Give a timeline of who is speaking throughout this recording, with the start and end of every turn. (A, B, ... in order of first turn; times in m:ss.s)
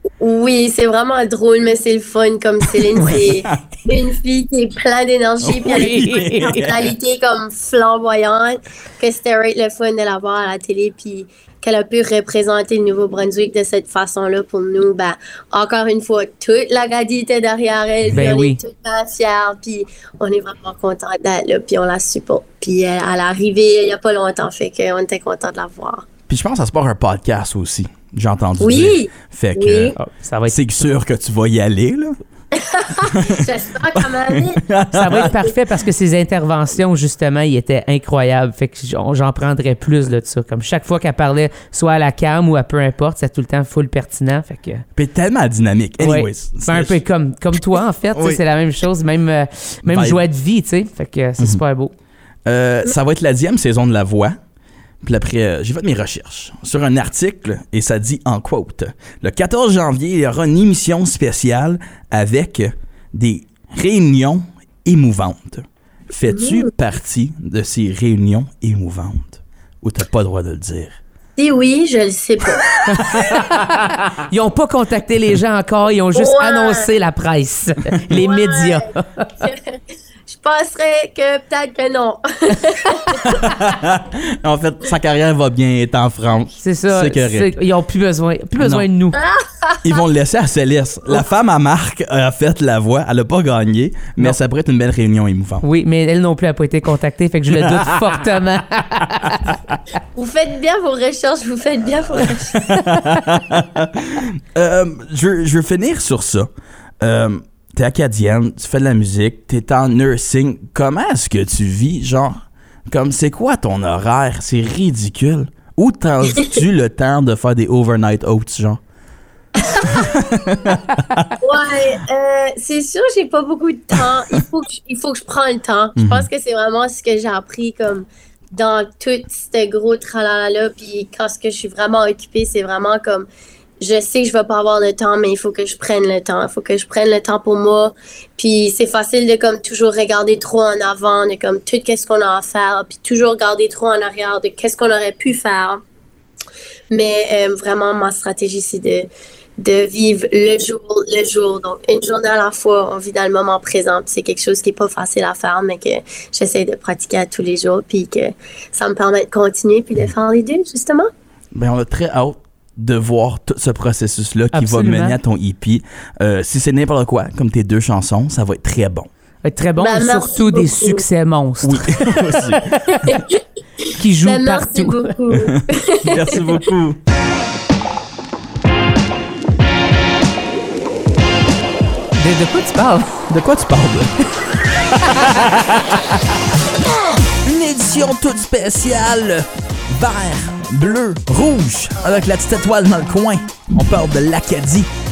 0:00.2-0:26.1 A
0:03.0-0:03.5 B
0:05.4-0:06.8 B
0:05.6-0:06.6 C
0:18.1-0:18.6 C
0:26.3-0:30.0 B
0:28.6-0:30.0 A
0:30.0-0:30.8 C
0:30.5-0:32.2 B
0:32.5-0:35.5 A
0:33.1-0:35.3 B
0:34.9-0:44.9 C
0:45.0-0:47.0 B
0:46.0-0:51.9 C
0:48.2-0:48.4 B
0:49.9-0:50.2 B
0:52.5-0:54.4 B
0:55.0-1:11.0 B
1:06.3-1:06.7 A
1:11.4-1:13.2 A
1:12.9-1:19.4 C
1:13.1-1:13.4 B
1:16.2-1:16.9 A
1:18.1-1:18.9 A
1:19.4-1:23.4 A
1:23.2-1:27.5 B
1:26.6-1:29.2 C
1:28.6-1:28.9 B
1:29.2-1:29.9 A
1:29.8-1:35.6 B
1:35.6-1:39.4 C
1:37.5-1:38.0 B
1:39.4-1:39.8 B
1:40.2-1:42.8 A
1:42.2-1:46.5 B
1:47.0-1:58.8 B
1:59.6-2:00.2 A
1:59.8-2:01.3 B
2:01.4-2:13.3 A
2:06.0-2:06.3 B
2:13.8-2:25.8 A
2:26.9-2:41.1 A
2:41.5-2:49.1 B
2:44.5-2:45.2 C
2:49.4-2:53.2 C
2:49.8-2:51.0 A
2:51.6-2:52.8 B
2:52.9-2:53.4 A
2:54.0-2:55.1 C
2:54.2-2:56.6 A
2:55.3-2:57.0 B
3:02.2-3:03.2 C
3:03.3-3:06.2 B
3:07.3-3:14.9 B